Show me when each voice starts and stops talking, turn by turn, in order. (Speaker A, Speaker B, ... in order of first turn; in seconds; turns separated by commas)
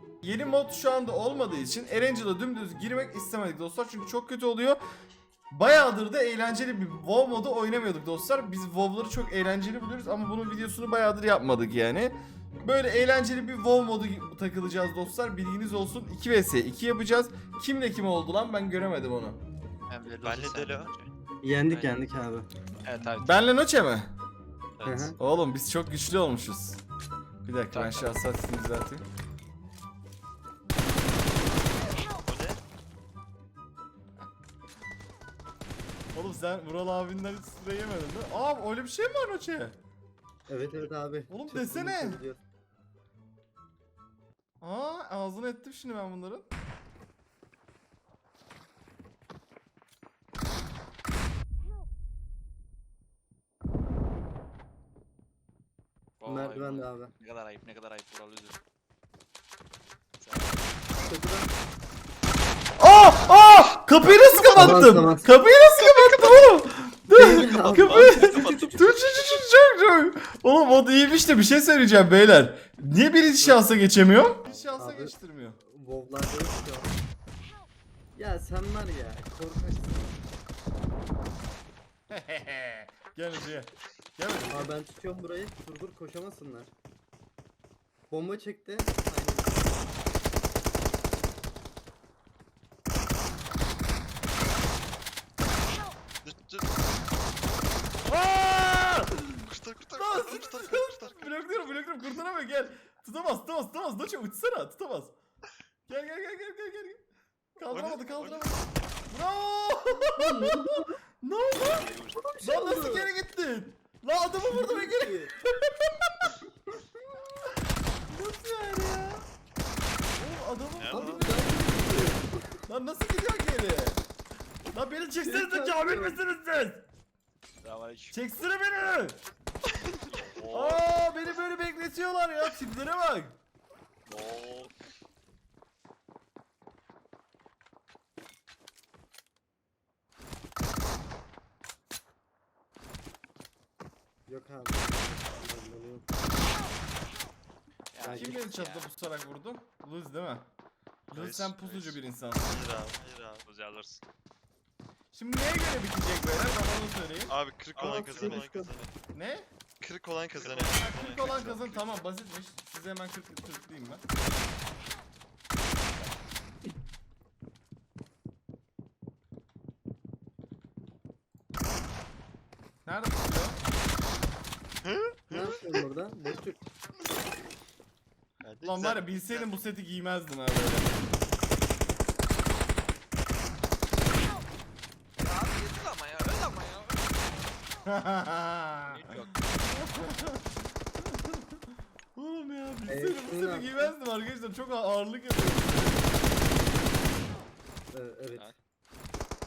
Speaker A: 0.2-4.8, Speaker A: 5.5-19.4, Speaker B: 19.9-21.1, Speaker C: 20.2-20.9, Speaker D: 21.4-22.5, Speaker B: 21.7-22.0, Speaker B: 22.8-23.4, Speaker A: 23.2-24.1, Speaker B: 24.8-25.1, Speaker D: 24.8-25.2, Speaker A: 25.2-26.8, Speaker A: 27.4-29.1, Speaker B: 27.7-28.2, Speaker C: 32.1-32.6, Speaker A: 36.1-39.8, Speaker D: 40.5-42.4, Speaker A: 41.3-42.2, Speaker A: 44.6-46.5, Speaker B: 56.2-58.6, Speaker D: 56.2-57.1, Speaker B: 60.2-60.6, Speaker D: 61.0-61.5, Speaker A: 62.8-75.6, Speaker D: 64.4-65.3, Speaker D: 67.1-69.0, Speaker B: 67.4-68.8, Speaker C: 74.4-74.8, Speaker D: 74.8-76.9, Speaker D: 78.1-80.2, Speaker A: 82.1-84.7, Speaker D: 84.5-86.7, Speaker D: 88.1-89.8, Speaker C: 96.2-97.0, Speaker A: 98.0-105.2, Speaker C: 99.4-101.4, Speaker A: 105.9-107.0, Speaker A: 107.5-116.3, Speaker C: 107.7-108.7, Speaker D: 110.0-111.0, Speaker B: 111.7-112.2, Speaker D: 112.2-113.1, Speaker D: 114.4-115.3, Speaker A: 118.1-119.2, Speaker A: 120.2-121.9, Speaker B: 120.7-121.3, Speaker D: 120.9-122.6, Speaker A: 122.7-124.0, Speaker A: 124.7-126.9, Speaker D: 125.2-126.2, Speaker B: 127.6-128.2, Speaker A: 128.1-129.2, Speaker B: 130.1-130.8, Speaker A: 130.5-133.4, Speaker B: 134.1-134.8, Speaker D: 144.3-146.1, Speaker B: 147.9-148.9, Speaker D: 148.0-148.4, Speaker A: 148.1-150.5, Speaker A: 151.1-152.7, Speaker C: 151.1-153.4, Speaker B: 153.4-154.0, Speaker A: 155.1-157.4, Speaker C: 157.3-158.9, Speaker D: 157.8-158.8, Speaker B: 157.8-158.4, Speaker A: 159.1-159.5, Speaker C: 159.8-161.9, Speaker A: 160.4-164.0, Speaker A: 172.9-173.6, Speaker C: 174.8-175.5, Speaker D: 175.3-176.6, Speaker C: 178.4-179.6, Speaker A: 178.6-181.0, Speaker B: 185.2-187.6, Speaker A: 187.8-196.2, Speaker B: 188.9-189.5, Speaker D: 192.9-193.9, Speaker D: 197.9-198.5